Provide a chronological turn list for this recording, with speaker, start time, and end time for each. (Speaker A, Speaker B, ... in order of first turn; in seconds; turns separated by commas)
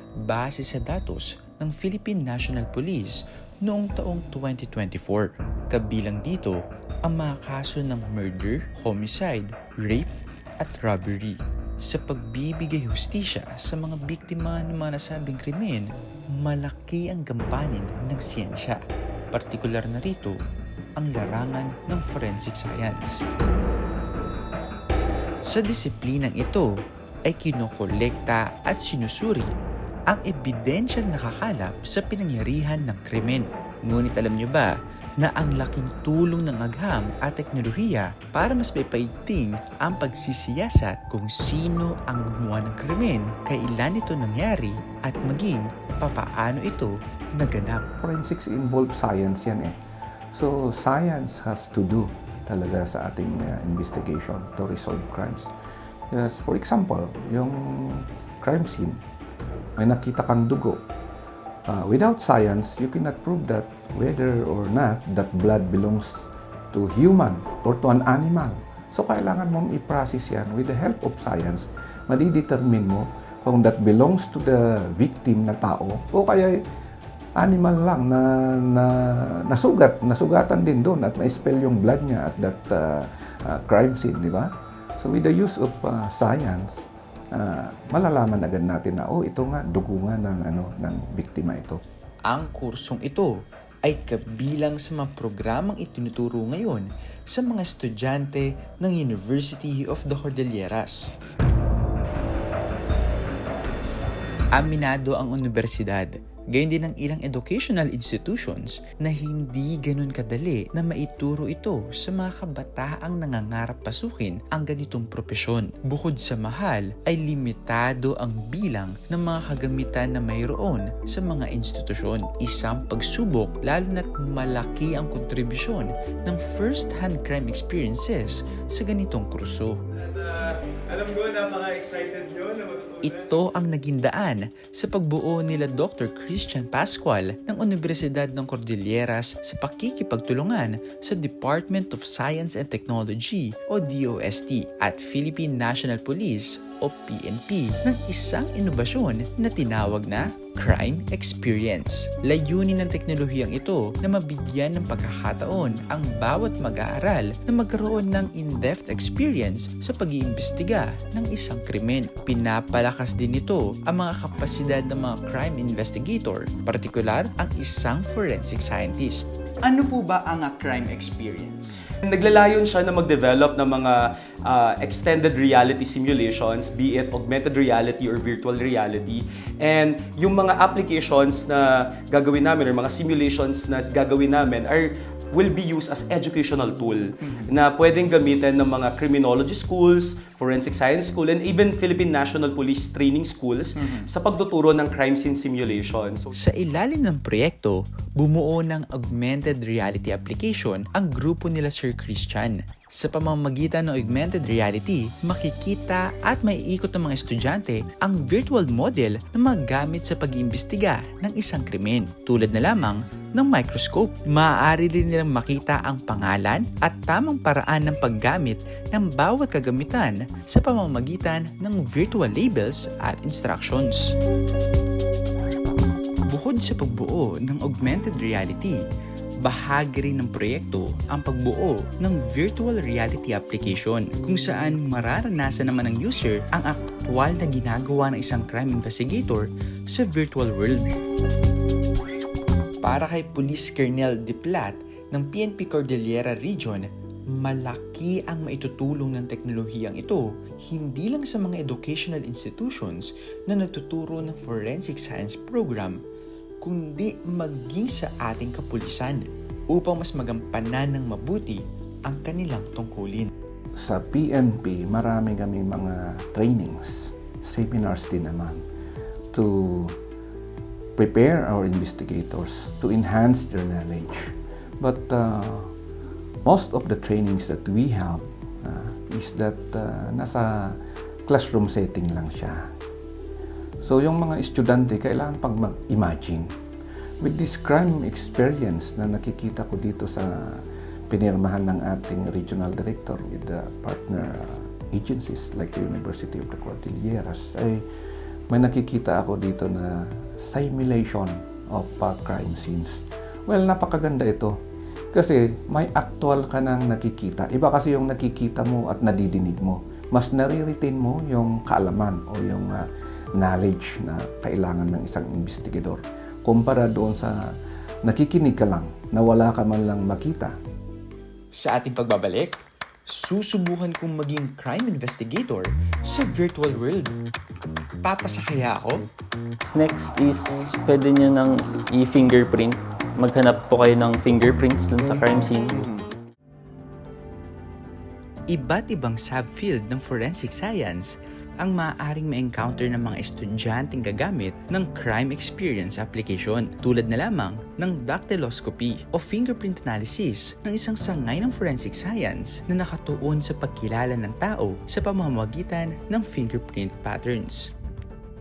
Speaker A: 0.2-10.1, Speaker A: 10.6-18.8, Speaker A: 19.3-20.4, Speaker A: 20.9-23.2, Speaker A: 25.4-26.7, Speaker A: 27.2-29.5, Speaker A: 30.1-47.9, Speaker B: 48.0-49.7, Speaker B: 50.3-55.5, Speaker B: 56.1-59.0, Speaker B: 59.8-60.8, Speaker B: 61.7-76.6, Speaker B: 77.4-91.8, Speaker A: 92.2-101.1, Speaker A: 104.5-129.8, Speaker C: 129.9-133.3, Speaker A: 133.0-169.3, Speaker D: 169.6-171.8, Speaker C: 172.0-196.3, Speaker D: 187.2-187.5, Speaker D: 193.8-194.1, Speaker A: 196.4-224.2, Speaker A: 226.3-228.8, Speaker A: 229.4-240.9, Speaker A: 242.8-256.0, Speaker A: 256.6-263.3, Speaker B: 263.8-268.6, Speaker B: 269.3-269.9, Speaker B: 271.0-275.7, Speaker B: 276.4-282.7, Speaker B: 283.8-286.5, Speaker B: 287.2-297.8, Speaker B: 298.5-304.5, Speaker B: 305.1-312.9, Speaker B: 313.4-317.5, Speaker B: 318.0-320.5, Speaker A: 321.5-327.1, Speaker A: 328.0-329.1, Speaker E: 329.6-335.8, Speaker D: 335.7-336.1, Speaker A: 338.5-357.7